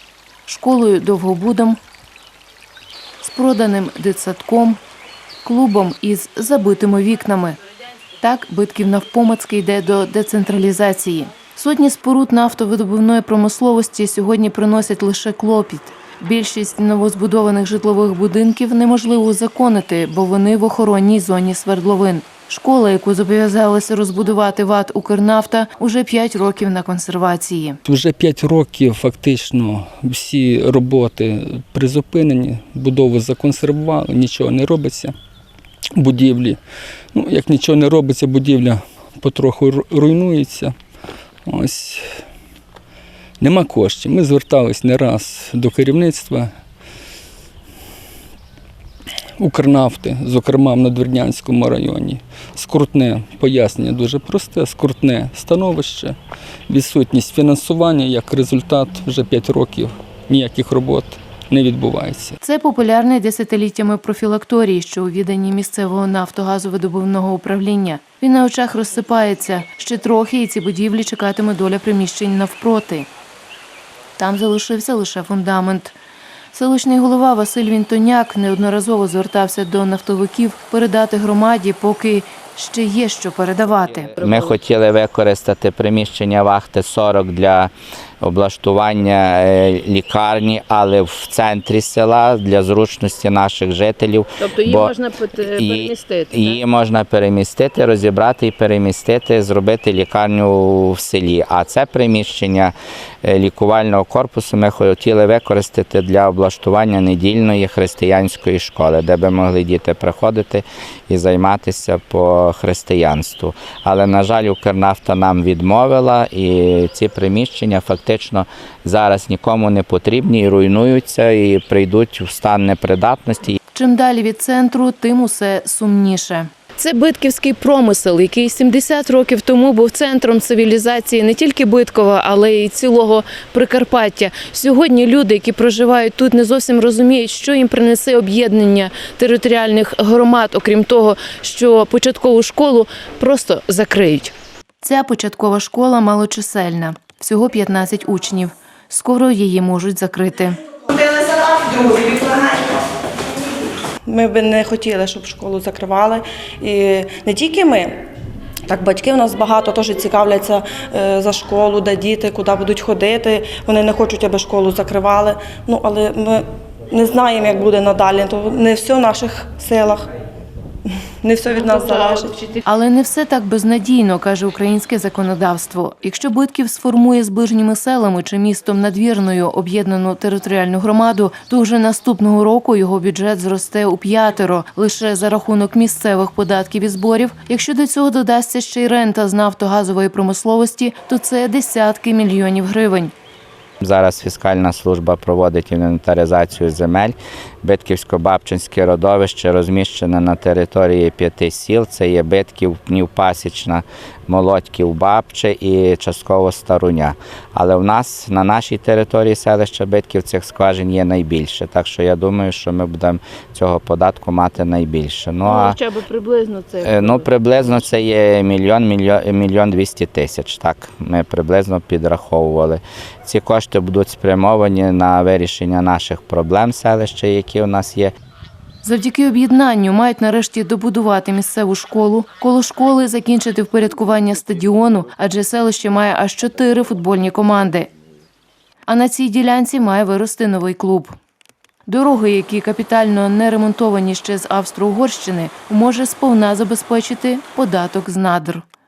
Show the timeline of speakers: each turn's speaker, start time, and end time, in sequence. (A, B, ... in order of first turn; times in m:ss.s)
0:00.4-0:01.8 A
0:03.2-0:04.8 A
0:05.4-0:07.6 A
0:08.2-0:27.8 A
0:27.8-0:35.1 B
0:36.0-0:36.6 B
0:37.1-0:40.7 B
0:41.4-0:42.0 B
0:43.4-0:46.5 B
0:49.4-0:56.2 B
0:56.7-1:02.4 B
1:02.4-1:13.1 A
1:14.2-1:16.0 A
1:16.5-1:24.1 A
1:24.0-2:03.6 C
1:34.6-1:36.1 D
2:03.7-2:30.6 A
2:30.9-2:32.6 E
2:34.0-2:38.0 E
2:38.6-2:50.0 E
2:50.8-2:52.5 E
2:52.5-3:13.1 A
3:13.8-3:35.8 C
3:35.4-3:37.2 D
3:36.8-3:48.1 C
3:48.8-3:57.9 A
3:58.9-4:01.1 A
4:01.9-4:08.6 A